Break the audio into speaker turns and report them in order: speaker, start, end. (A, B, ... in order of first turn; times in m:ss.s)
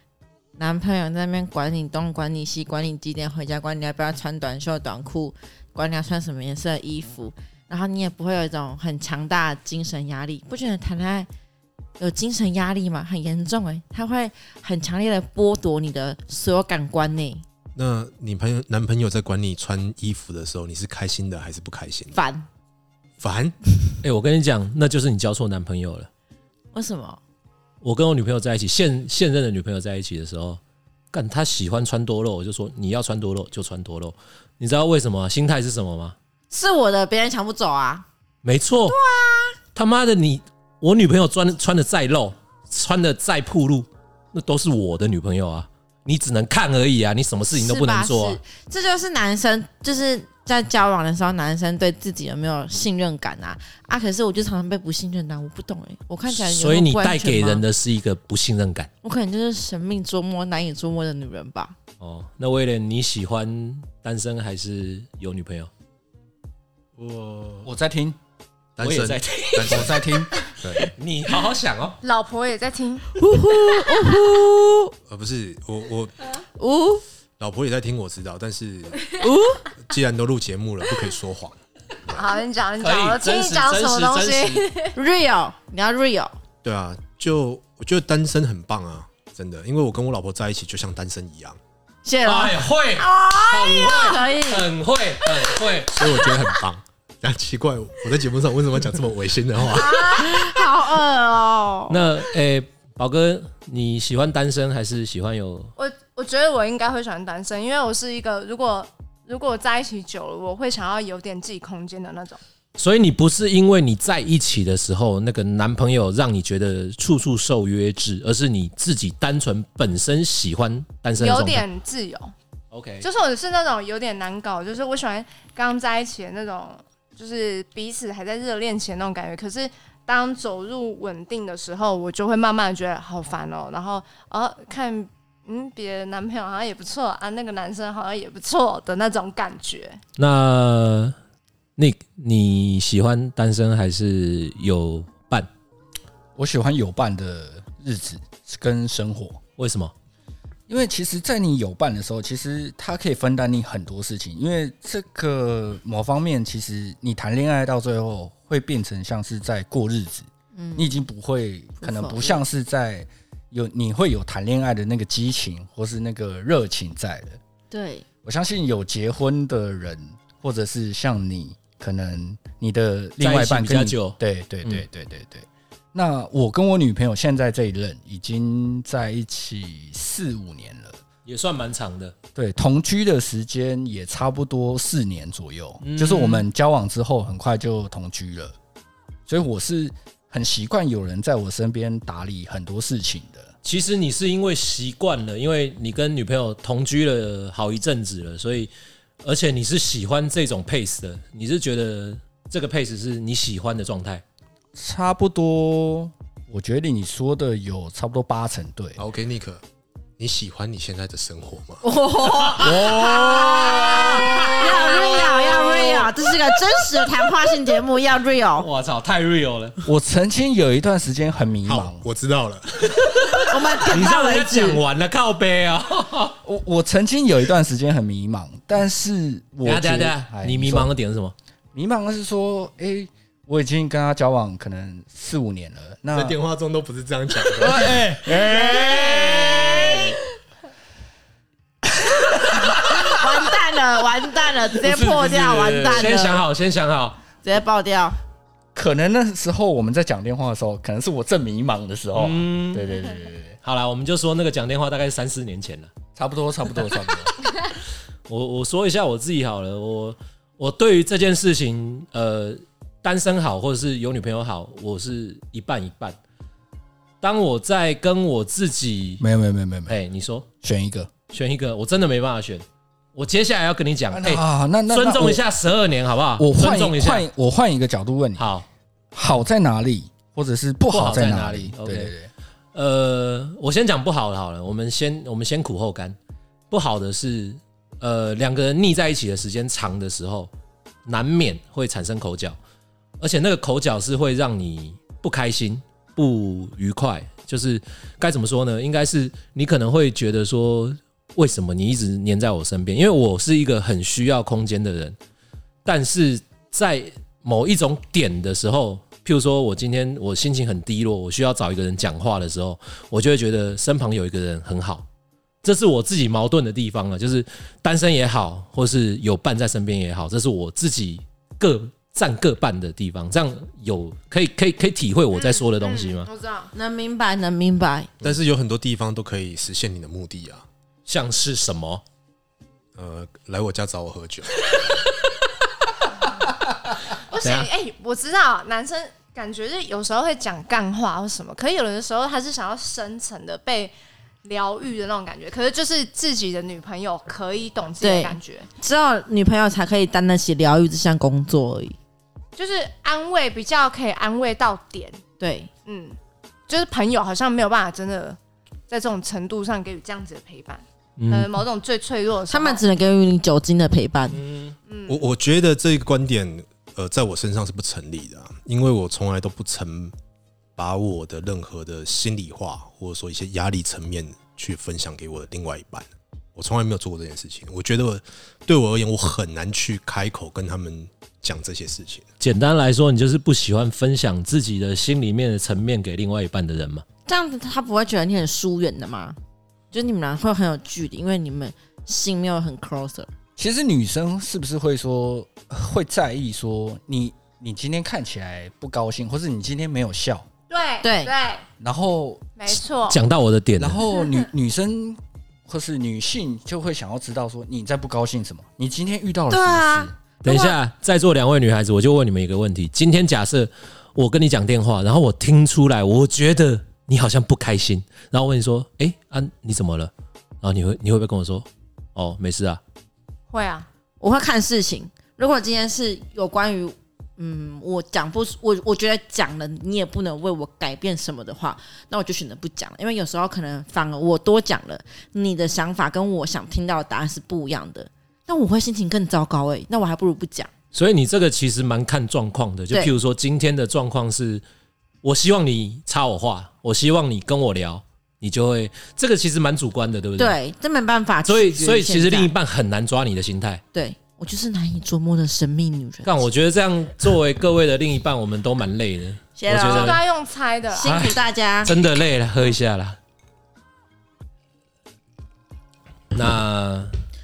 0:00.6-0:11.3 A
0:12.0-0:17.4 A
0:17.8-0:22.2 B
0:22.1-0:22.5 A
0:23.2-0:23.6 B
0:24.0-0:26.1 C
0:26.7-0:27.2 A
0:27.8-0:30.6 C
0:31.1-0:36.2 C
0:36.5-0:38.1 A
0:38.4-0:39.0 C
0:38.9-0:39.6 A
0:39.8-0:48.4 C
0:47.5-0:57.6 A
0:56.3-0:58.9 C
0:59.0-1:01.8 A
1:02.0-1:05.7 C
1:07.0-1:07.7 B
1:07.6-1:08.2 D
1:08.8-1:10.0 B
1:08.8-1:10.2 C
1:09.7-1:10.3 D
1:10.6-1:10.9 B
1:10.8-1:12.0 C
1:12.0-1:13.1 E
1:13.2-1:14.9 A
1:15.1-1:16.1 B
1:16.4-1:17.0 A
1:17.4-1:19.1 B
1:19.1-1:19.7 A
1:19.8-1:21.6 B
1:22.1-1:25.0 E
1:22.8-1:24.7 C
1:25.0-1:26.4 A
1:26.6-1:31.6 B
1:32.0-1:34.7 A
1:32.2-1:36.1 C
1:35.9-1:40.4 B
1:39.8-1:42.0 A
1:41.9-1:45.7 C
1:45.8-1:52.4 E
1:52.8-2:01.6 C
2:01.2-2:02.3 E
2:02.7-2:03.1 C
2:03.0-2:20.0 E
2:20.2-2:21.2 C
2:21.8-2:25.5 C
2:26.4-2:29.4 D
2:29.6-2:29.9 C
2:30.7-2:47.4 D
2:40.5-2:40.9 A
2:41.8-2:42.4 A
2:47.7-2:48.0 A
2:48.2-3:01.0 D
2:53.2-2:54.8 C
3:01.3-3:02.2 C
3:02.4-3:08.6 D
3:05.8-3:06.5 C
3:09.3-3:13.5 D
3:13.6-3:18.7 C
3:19.2-3:24.2 C
3:24.8-3:29.0 D
3:29.0-3:29.6 B
3:30.2-3:31.8 B
3:31.8-3:38.7 A
3:32.4-3:36.4 C
3:38.6-3:39.8 C
3:39.8-3:42.0 D
3:41.6-3:43.4 B
3:42.9-3:46.4 C
3:43.5-3:44.8 A
3:46.4-3:50.9 D
3:49.6-3:51.3 C
3:51.7-3:56.4 D
3:56.1-3:58.0 B
3:57.5-4:00.0 D
3:58.3-4:00.2 A
4:02.7-4:06.4 A
4:04.8-4:06.2 D
4:05.9-4:07.2 C
4:07.4-4:08.2 A
4:08.8-4:13.6 D
4:12.2-4:12.9 C
4:13.6-4:15.9 C
4:16.2-4:17.3 D
4:18.3-4:26.2 C
4:27.2-4:29.2 C
4:29.2-4:30.0 D
4:29.9-4:30.5 C
4:30.6-4:31.1 D
4:31.3-4:37.3 C
4:34.1-4:35.4 D
4:36.4-4:38.4 D
4:38.4-4:38.7 C
4:39.1-4:42.3 D
4:40.9-4:42.1 C
4:42.7-4:46.2 C
4:46.7-4:50.5 C
4:51.1-4:52.6 C
4:53.2-5:05.2 C
5:05.8-5:15.0 C
5:15.6-5:26.3 C
5:25.3-5:26.7 E
5:26.7-5:28.1 A
5:28.2-5:30.6 B
5:31.1-5:32.0 C
5:33.0-5:34.9 B
5:37.3-5:48.7 E
5:37.4-5:37.7 C
5:48.0-5:52.0 A
5:52.6-5:55.2 E
5:55.4-5:55.7 A
5:55.9-5:56.2 E
5:56.7-5:58.4 E
5:58.9-6:02.8 E
6:01.2-6:01.5 C
6:02.5-6:04.4 A
6:04.3-6:04.8 C
6:04.9-6:05.2 E
6:05.1-6:10.1 B
6:10.8-6:22.3 B
6:22.4-6:27.0 C
6:27.3-6:29.4 A
6:29.9-6:33.3 A
6:33.6-6:40.5 D
6:40.7-6:41.6 E
6:41.0-6:41.3 A
6:41.8-6:42.4 D
6:42.6-6:43.2 E
6:43.1-6:44.0 C
6:43.8-6:50.2 D
6:49.5-6:50.8 A
6:50.4-7:00.1 C
7:00.6-7:02.8 C
7:03.5-7:03.9 E
7:04.2-7:20.7 A
7:20.9-7:24.6 C
7:25.2-7:30.6 C
7:30.4-7:32.5 A
7:31.4-7:33.8 C
7:33.9-7:36.4 A
7:36.2-7:40.2 C
7:39.6-7:40.2 A
7:39.8-7:41.2 E
7:41.0-7:41.9 A
7:41.0-7:43.2 C
7:46.3-7:47.1 C